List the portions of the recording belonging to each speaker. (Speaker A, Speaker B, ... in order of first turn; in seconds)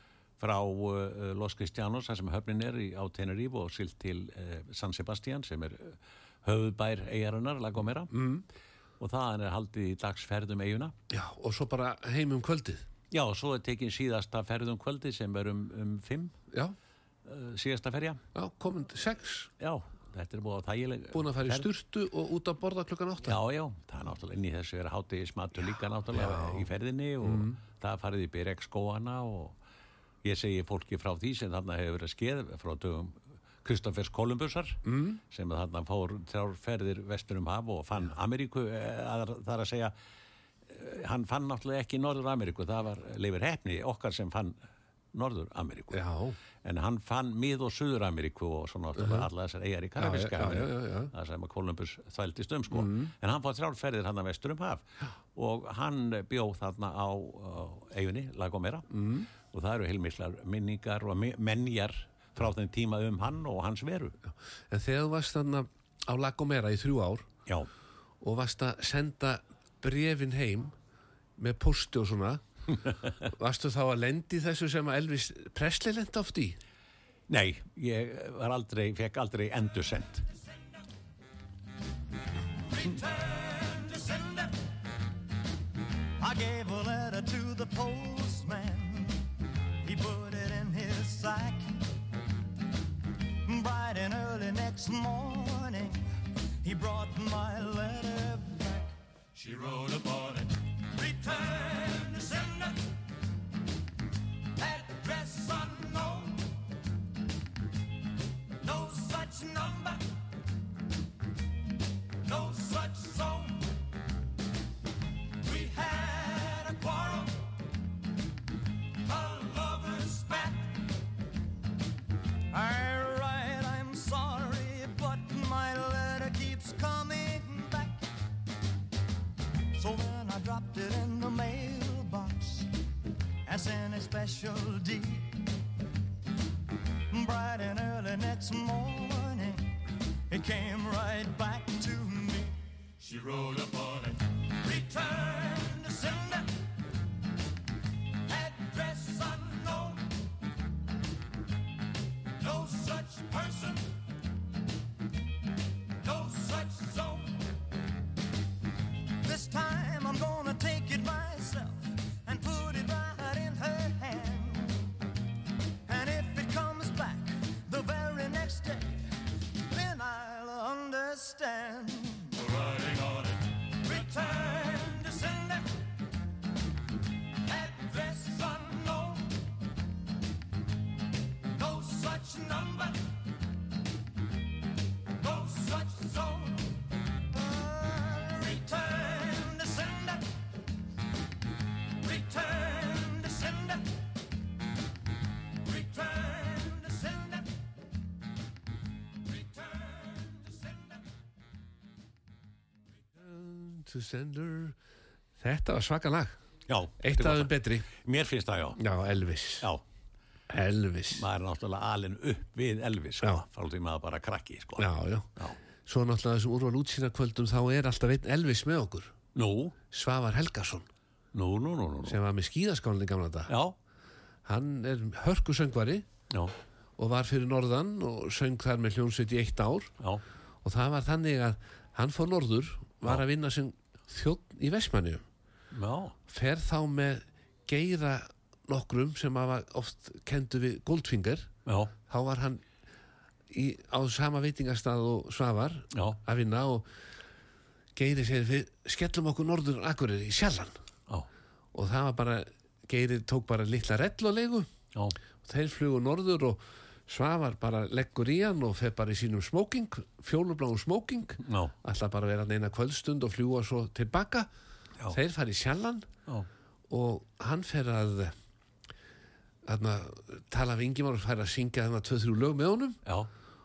Speaker A: 0.4-8.1, 9.0-10.9, 13.1-16.3, 17.2-18.2, 19.6-21.7, 23.2-29.6, 30.2-39.9, 40.7-44.6, 45.1-46.0, 46.6-58.9, 59.5-64.1, 77.3-80.2, 206.7-208.8, 211.1-215.6, 219.3-219.8, 221.3-222.2, 223.5-223.8, 235.7-236.2, 241.7-241.9, 261.4-261.7
Speaker B: 8.1-8.4, 11.1-12.8, 18.3-19.5, 21.1-23.4, 26.1-26.7, 27.2-27.6, 34.8-35.2, 45.9-46.4, 49.0-49.3, 50.0-51.1, 52.7-53.1, 58.9-59.3, 64.7-67.3, 68.2-70.7, 71.4-72.4, 73.2-76.6, 203.1-204.8, 205.4-206.4, 207.0-207.8, 208.8-209.7, 210.5-211.2, 214.8-215.3, 215.8-219.1, 219.9-220.9, 222.1-223.5, 224.4-226.1, 227.0-229.9, 230.6-235.2, 236.3-241.5, 242.1-242.6, 243.5-246.9, 247.9-250.8, 251.7-254.7, 255.4-264.5, 265.1-266.1, 266.9-268.3, 269.6-273.0
Speaker C: 82.7-84.5, 86.2-89.2, 89.8-91.7, 93.4-96.0, 96.6-102.8, 104.6-106.4, 108.6-110.0, 112.2-113.7, 115.4-117.4, 119.0-120.8, 122.5-128.0, 129.7-132.7, 133.4-135.4, 137.1-139.7, 140.3-146.5, 148.2-150.1, 152.4-153.9, 156.0-157.4, 159.2-164.8, 165.8-169.1, 169.7-175.7, 177.4-179.3, 181.5-183.0, 185.2-186.6, 187.3-190.3, 192.0-193.9, 195.6-197.4, 199.3-200.9